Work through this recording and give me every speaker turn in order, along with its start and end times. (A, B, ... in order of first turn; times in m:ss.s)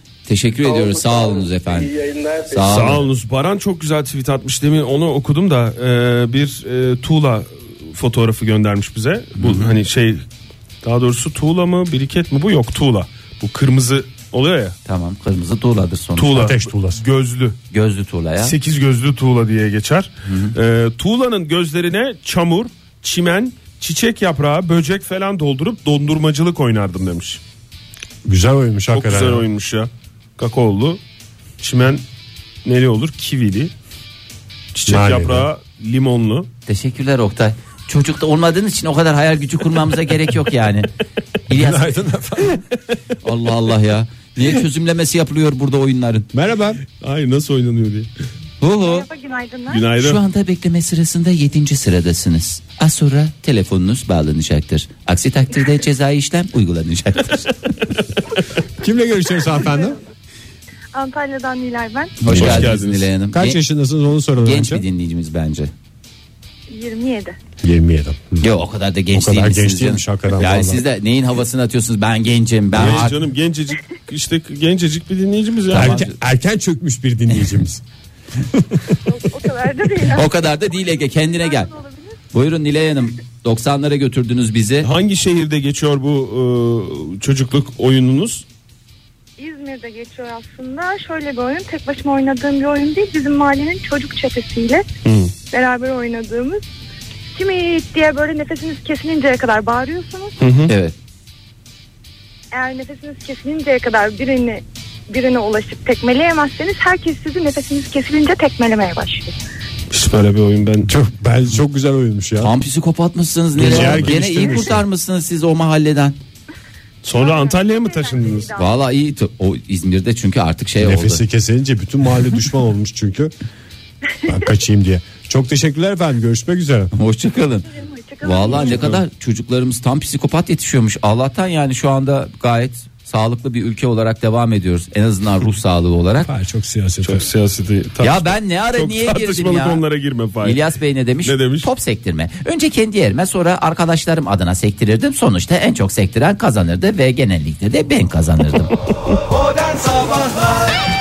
0:00.3-0:01.9 A
0:00.6-0:02.8 B
0:02.5-0:03.0 A
0:02.7-0:10.2 C
0:09.4-0:09.7 A
0:10.8-0:14.8 C
0:14.8-0:16.4 A
0:16.2-0:17.6 C
0:16.3-0:17.0 D
0:17.7-0:18.5 A
0:18.4-0:27.4 C
0:20.2-0:20.5 A
0:28.2-0:29.4 D
0:28.9-0:31.0 C
0:31.6-0:32.0 C
0:32.6-0:33.7 C
0:34.7-0:36.5 C
0:34.8-0:35.5 D
0:36.7-0:40.9 A
0:41.5-0:42.0 A
0:41.5-0:42.6 D
0:43.2-0:46.3 A
0:46.3-0:46.8 D
0:47.0-0:48.1 C
0:48.6-0:49.1 A
0:48.8-0:49.9 E
0:49.7-0:50.2 C
0:50.0-0:57.5 A
0:58.8-1:00.0 D
1:00.9-1:02.2 E
1:02.2-1:03.6 A
1:02.2-1:03.1 C
1:02.3-1:02.7 D
1:03.3-1:04.8 D
1:04.4-1:05.7 A
1:06.7-1:07.4 E
1:07.6-1:08.4 D
1:08.4-1:13.2 A
1:09.1-1:10.8 D
1:12.7-1:16.0 C
1:15.7-1:16.1 A
1:15.7-1:17.8 D
1:18.5-1:19.0 D
1:19.0-1:20.3 E
1:20.1-1:21.7 A
1:21.4-1:22.1 E
1:22.3-1:24.9 A
1:24.8-1:28.4 C
1:29.4-1:34.8 E
1:35.0-1:35.3 C
1:35.5-1:36.6 E
1:37.3-1:40.4 E
1:40.4-1:40.7 C
1:40.7-1:40.9 A
1:42.5-1:49.3 E
1:49.9-1:50.9 C
1:50.8-1:52.5 D
1:52.4-1:56.2 A
1:53.6-1:54.5 C
1:53.6-1:54.8 D
1:57.0-1:58.5 C
1:57.1-1:58.8 E
1:58.6-2:01.2 A
2:00.8-2:03.3 D
2:04.2-2:06.9 D
2:06.9-2:07.7 A
2:07.6-2:08.8 E
2:08.2-2:16.3 A
2:16.2-2:17.3 D
2:17.0-2:20.6 C
2:18.0-2:19.8 A
2:20.4-2:28.7 A
2:21.2-2:21.7 C
2:29.8-2:30.1 D